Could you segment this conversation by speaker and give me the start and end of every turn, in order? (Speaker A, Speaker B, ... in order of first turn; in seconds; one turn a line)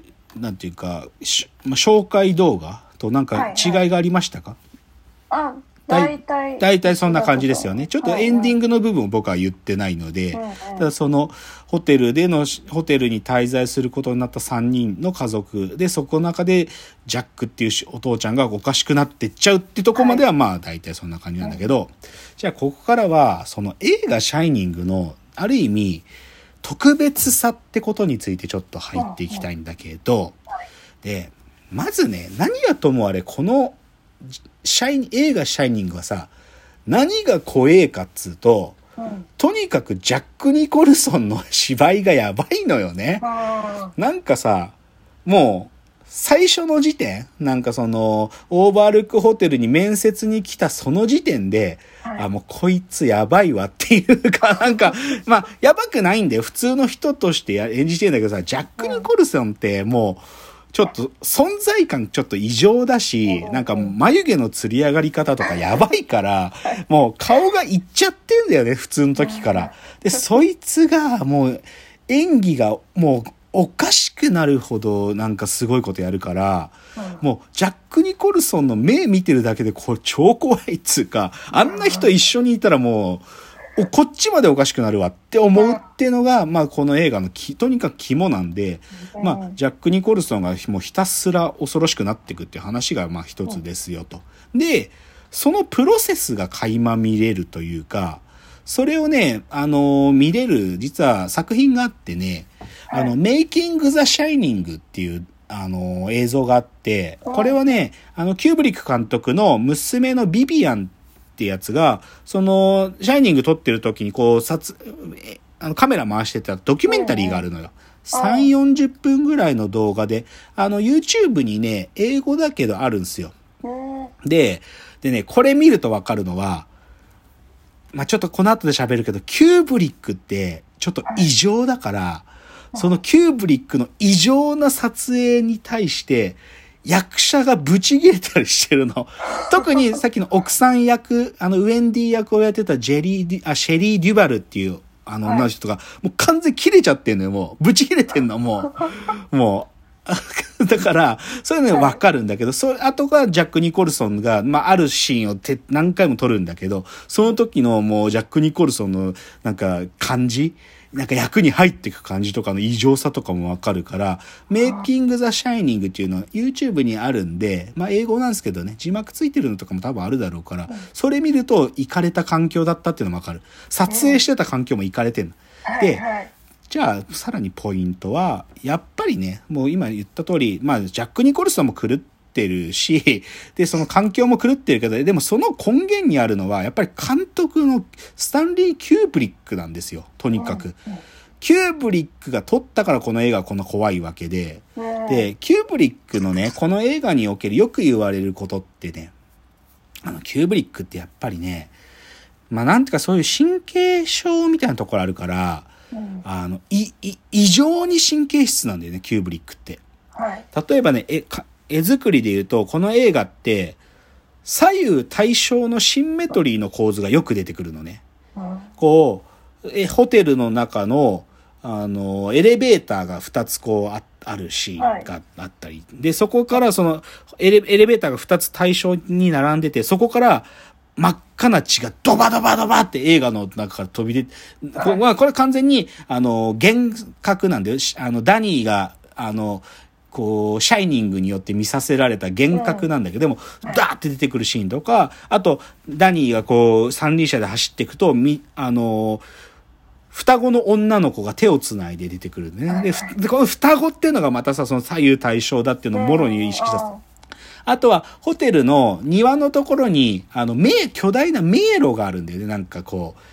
Speaker A: 0.4-4.6
Speaker B: 3.3-3.8
Speaker B: 5.3-8.6
Speaker A: 5.9-26.1
Speaker B: 10.3-10.9
Speaker B: 20.0-20.2
Speaker A: 26.6-30.4
Speaker B: 28.9-29.5
Speaker A: 31.0-33.8
Speaker A: 34.6-36.3
Speaker A: 36.9-38.8
Speaker B: 39.0-39.3
Speaker A: 39.4-43.3
Speaker B: 43.2-43.9
Speaker A: 44.0-123.3
Speaker B: 58.8-59.0
Speaker B: 63.3-63.9
Speaker B: 69.2-69.7
Speaker B: 77.0-77.2
Speaker B: 81.5-82.1
Speaker B: 89.1-89.6
Speaker B: 107.2-107.6
Speaker B: 116.9-117.4
Speaker B: 118.1-118.5
Speaker B: 123.6-124.1
Speaker A: 124.2-126.7
Speaker A: 127.9-176.0
Speaker B: 132.7-133.0
Speaker B: 151.7-152.0
Speaker B: 164.6-164.9
Speaker B: 173.9-174.2
Speaker B: 175.7-176.3
Speaker A: 176.7-190.8
Speaker B: 190.4-191.0
Speaker A: 191.4-199.1
Speaker B: 194.8-195.3
Speaker A: 200.1-201.7
Speaker A: 202.5-205.7
Speaker B: 205.9-206.2
Speaker A: 206.2-209.8
Speaker B: 210.2-210.4
Speaker A: 210.5-213.8
Speaker A: 214.4-218.0
Speaker B: 218.4-218.7
Speaker A: 218.8-249.2
Speaker B: 224.8-225.1
Speaker B: 242.5-242.9
Speaker A: 250.1-256.9
Speaker B: 252.7-253.1
Speaker B: 255.9-257.0
Speaker A: 257.6-263.2